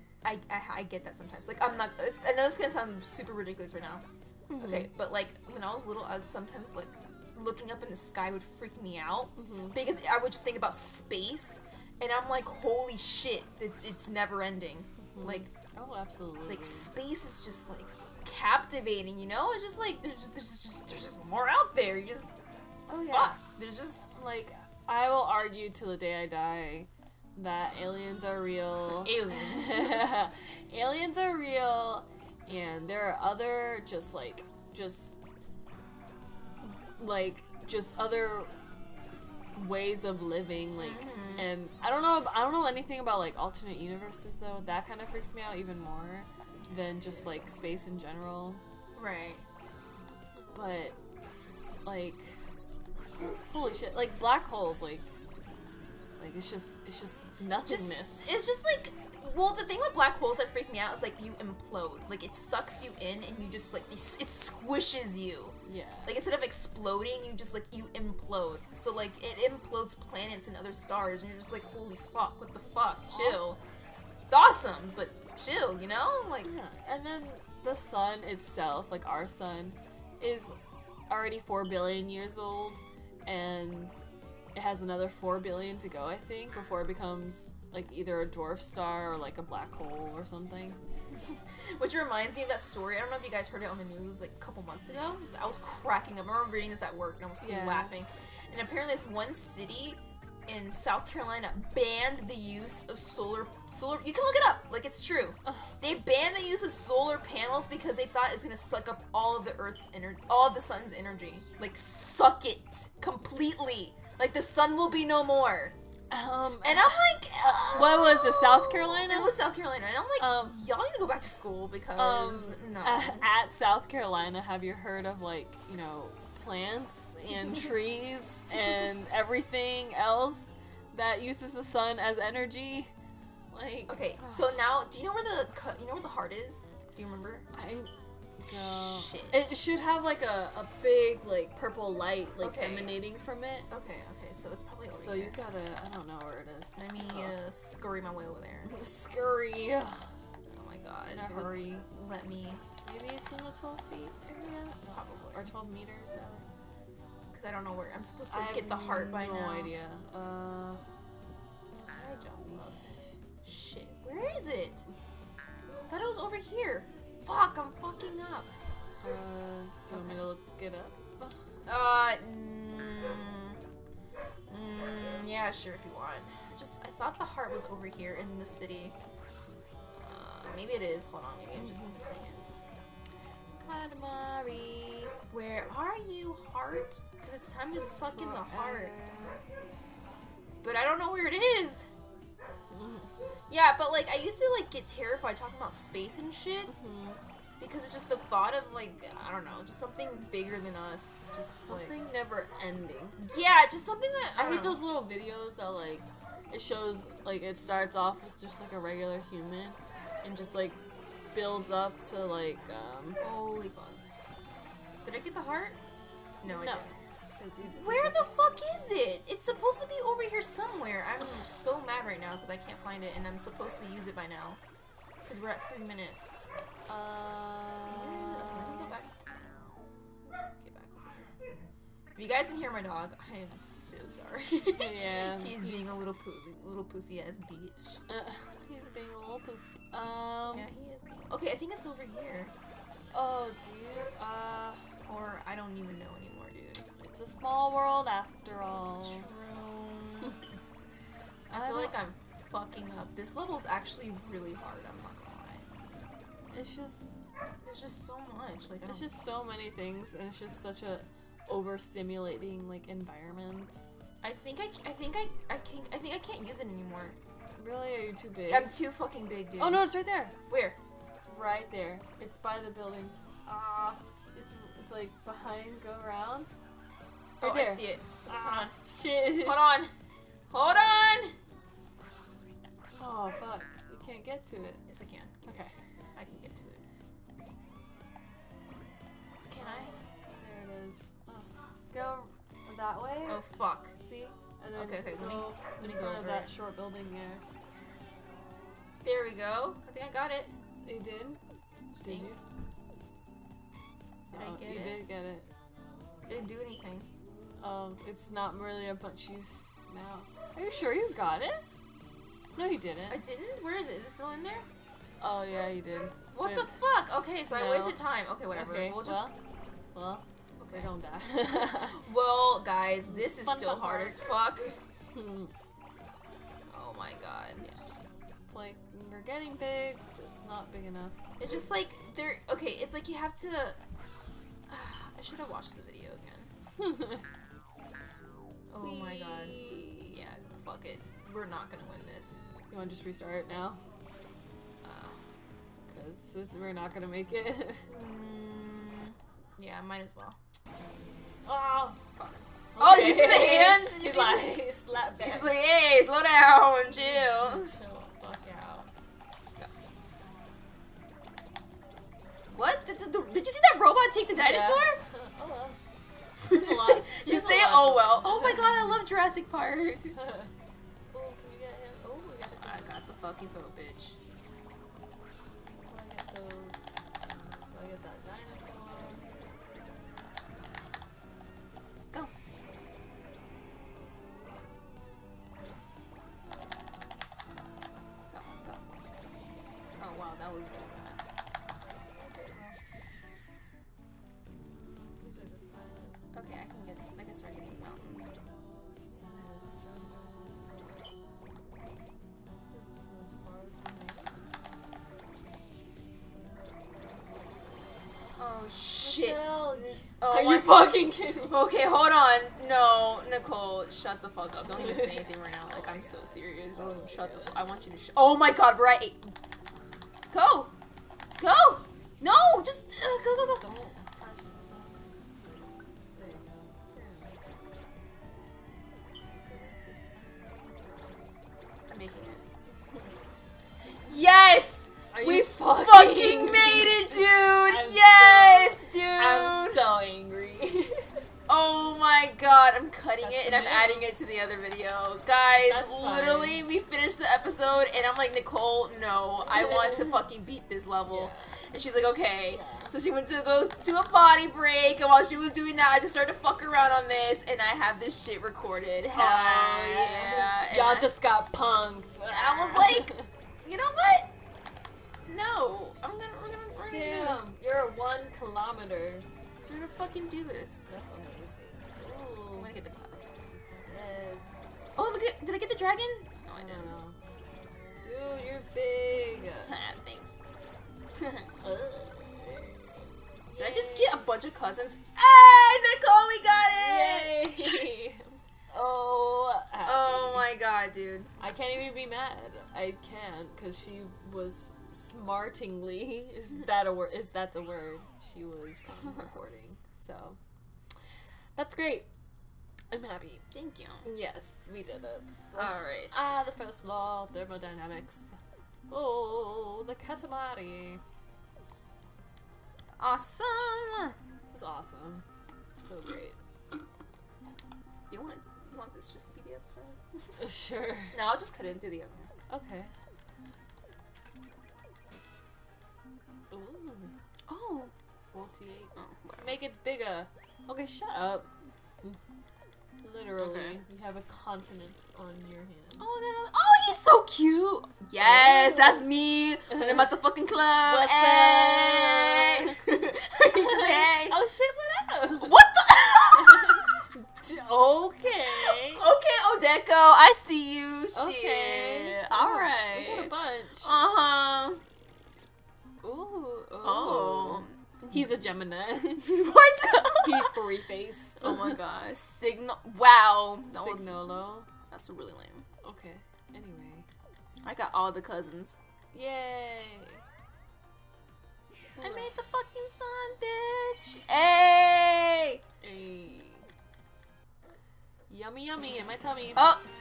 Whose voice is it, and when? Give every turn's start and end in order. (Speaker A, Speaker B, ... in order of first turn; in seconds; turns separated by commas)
Speaker A: 0.2-4.0, Speaker B: 4.5-4.9, Speaker A: 4.5-15.5, Speaker B: 9.3-9.8, Speaker B: 15.1-16.9, Speaker A: 16.4-22.3, Speaker B: 22.9-23.4, Speaker A: 23.1-24.1, Speaker B: 24.1-35.2, Speaker A: 28.9-30.2, Speaker B: 36.6-38.5, Speaker B: 39.5-48.6, Speaker A: 40.8-41.5, Speaker A: 46.6-47.4, Speaker A: 49.0-49.4, Speaker B: 50.5-51.0, Speaker B: 51.8-52.4, Speaker B: 53.5-55.1, Speaker B: 56.2-58.4, Speaker A: 57.6-73.6, Speaker B: 65.6-66.1, Speaker B: 72.6-73.4, Speaker A: 74.3-76.5, Speaker B: 76.4-80.5, Speaker B: 81.1-83.9, Speaker B: 84.5-90.8, Speaker A: 91.1-115.7, Speaker B: 97.4-97.9, Speaker B: 105.4-105.7, Speaker B: 116.1-117.0, Speaker A: 116.6-123.3, Speaker B: 117.7-119.3, Speaker B: 120.2-120.6, Speaker B: 122.0-132.9, Speaker B: 133.5-134.5, Speaker A: 133.9-137.5, Speaker B: 137.5-137.9, Speaker B: 138.4-143.7, Speaker A: 138.5-139.6, Speaker A: 142.4-143.0, Speaker A: 143.7-145.4, Speaker B: 144.9-147.3, Speaker A: 146.8-148.7, Speaker B: 148.6-150.0, Speaker A: 150.5-152.6, Speaker B: 151.1-151.9, Speaker B: 152.8-156.4, Speaker A: 154.9-155.5, Speaker A: 157.3-159.7, Speaker B: 158.3-160.8, Speaker A: 161.9-164.9, Speaker A: 165.9-168.5, Speaker B: 169.0-171.4, Speaker A: 169.9-170.2, Speaker A: 171.7-173.6, Speaker A: 174.5-178.9, Speaker A: 179.9-182.4, Speaker B: 181.6-181.9, Speaker B: 183.6-185.1, Speaker A: 185.3-188.9, Speaker B: 188.1-189.4, Speaker A: 190.6-191.9, Speaker B: 192.7-193.1, Speaker A: 193.5-196.7, Speaker B: 196.7-197.2, Speaker A: 197.6-201.9, Speaker B: 201.5-203.2, Speaker A: 203.2-204.8, Speaker B: 204.3-210.8, Speaker B: 211.3-213.2, Speaker A: 213.2-214.0, Speaker A: 215.0-215.8, Speaker A: 216.4-217.0, Speaker B: 216.5-216.9, Speaker B: 217.4-218.2, Speaker A: 217.7-224.6, Speaker B: 221.2-221.4, Speaker A: 225.2-226.3, Speaker B: 226.9-229.0, Speaker A: 227.9-229.1, Speaker A: 230.4-231.3, Speaker A: 232.2-238.0, Speaker B: 234.7-236.1, Speaker B: 238.1-240.7, Speaker A: 240.5-242.5, Speaker B: 243.1-244.8, Speaker A: 245.1-246.8, Speaker B: 247.0-249.3, Speaker A: 249.0-250.4, Speaker B: 251.5-251.9, Speaker A: 251.5-255.7, Speaker B: 256.5-257.2, Speaker A: 257.6-259.1, Speaker B: 258.9-263.9, Speaker A: 264.2-267.1, Speaker B: 267.6-268.7, Speaker A: 268.5-269.9, Speaker B: 269.6-270.3, Speaker A: 270.5-270.8, Speaker B: 271.2-276.5, Speaker A: 277.4-278.7, Speaker B: 277.4-279.6, Speaker A: 279.3-279.9, Speaker A: 280.5-281.3, Speaker B: 282.9-284.8, Speaker A: 284.9-286.8, Speaker B: 285.4-285.7, Speaker A: 289.4-289.9, Speaker B: 289.6-293.4, Speaker A: 293.2-293.9, Speaker B: 294.1-297.4, Speaker A: 294.7-296.5, Speaker A: 299.0-300.5, Speaker B: 300.8-301.4, Speaker B: 302.0-302.4, Speaker A: 302.1-302.4, Speaker A: 304.3-305.0, Speaker B: 304.3-305.5, Speaker A: 306.3-307.1, Speaker B: 307.6-311.6, Speaker B: 312.6-313.2, Speaker A: 313.1-314.7, Speaker B: 315.2-316.7, Speaker A: 316.3-319.3, Speaker B: 317.5-319.3, Speaker B: 319.9-322.0, Speaker A: 320.6-320.9, Speaker A: 321.4-324.8, Speaker B: 323.0-324.3, Speaker B: 325.1-325.5, Speaker A: 326.7-327.7, Speaker B: 328.5-331.2, Speaker A: 331.4-333.8, Speaker A: 334.7-336.5, Speaker B: 336.8-337.2, Speaker A: 338.7-342.4, Speaker B: 338.8-340.1, Speaker B: 342.7-343.8, Speaker A: 344.8-345.2, Speaker B: 345.9-347.8, Speaker A: 347.9-350.4, Speaker B: 351.4-355.5, Speaker A: 352.8-354.6, Speaker A: 355.2-357.7, Speaker B: 356.9-358.9, Speaker A: 362.5-365.0, Speaker B: 364.3-365.8, Speaker A: 366.4-370.1, Speaker B: 366.5-369.0, Speaker B: 370.1-370.5, Speaker B: 371.1-373.0, Speaker A: 372.6-374.1, Speaker B: 375.6-376.9, Speaker B: 377.7-379.3, Speaker A: 388.3-388.8, Speaker A: 390.0-391.2, Speaker B: 392.0-392.8, Speaker B: 394.8-396.2, Speaker A: 396.3-398.3, Speaker B: 399.2-400.9, Speaker B: 402.5-404.4, Speaker B: 405.9-408.1, Speaker A: 408.4-419.3, Speaker B: 409.0-411.6, Speaker B: 414.7-417.7, Speaker A: 420.3-420.7, Speaker A: 421.4-423.7, Speaker B: 423.6-425.0, Speaker B: 426.1-427.6, Speaker B: 429.2-431.2, Speaker A: 431.9-432.4, Speaker A: 434.0-439.8, Speaker B: 435.1-441.2, Speaker A: 441.5-461.1, Speaker B: 443.2-444.2, Speaker B: 445.6-446.6, Speaker B: 449.5-450.2, Speaker B: 451.1-451.5, Speaker B: 452.5-452.9, Speaker B: 459.1-463.3, Speaker A: 462.3-464.3, Speaker A: 465.3-467.4, Speaker B: 466.9-469.3, Speaker A: 469.6-470.8, Speaker B: 470.9-472.7, Speaker A: 472.5-473.3, Speaker B: 473.9-474.6, Speaker A: 474.9-477.0, Speaker B: 476.5-477.2, Speaker B: 478.0-479.7, Speaker A: 479.6-480.4, Speaker A: 481.2-481.5, Speaker B: 481.6-484.2, Speaker A: 483.6-488.4, Speaker B: 486.7-490.5, Speaker A: 489.8-491.3, Speaker B: 491.4-500.4, Speaker B: 501.6-502.1, Speaker B: 502.9-503.4, Speaker A: 503.5-504.1, Speaker B: 504.0-508.3, Speaker A: 505.5-506.3, Speaker B: 508.9-511.0, Speaker A: 513.0-514.1, Speaker B: 514.5-516.4, Speaker A: 518.1-520.4, Speaker B: 520.4-521.1, Speaker A: 521.1-522.3, Speaker B: 522.5-522.9, Speaker B: 526.5-527.1, Speaker A: 527.5-527.9, Speaker B: 528.3-531.5, Speaker A: 529.0-529.6, Speaker B: 533.0-536.0, Speaker A: 533.4-533.8, Speaker A: 536.0-544.4, Speaker B: 538.2-539.1, Speaker B: 539.7-540.1, Speaker B: 540.8-542.8, Speaker B: 543.5-545.5, Speaker A: 545.4-546.8, Speaker B: 546.3-549.0, Speaker A: 548.5-554.8, Speaker B: 551.1-554.0, Speaker B: 556.0-559.4, Speaker A: 556.8-558.3, Speaker A: 559.2-560.5, Speaker B: 560.2-561.8, Speaker A: 561.4-564.2, Speaker B: 563.7-564.7, Speaker A: 564.9-565.6, Speaker B: 565.8-567.1, Speaker A: 567.6-568.8, Speaker B: 569.1-570.2, Speaker B: 572.0-572.3, Speaker A: 572.0-575.6, Speaker B: 575.8-576.7, Speaker B: 578.3-579.8, Speaker A: 579.5-579.9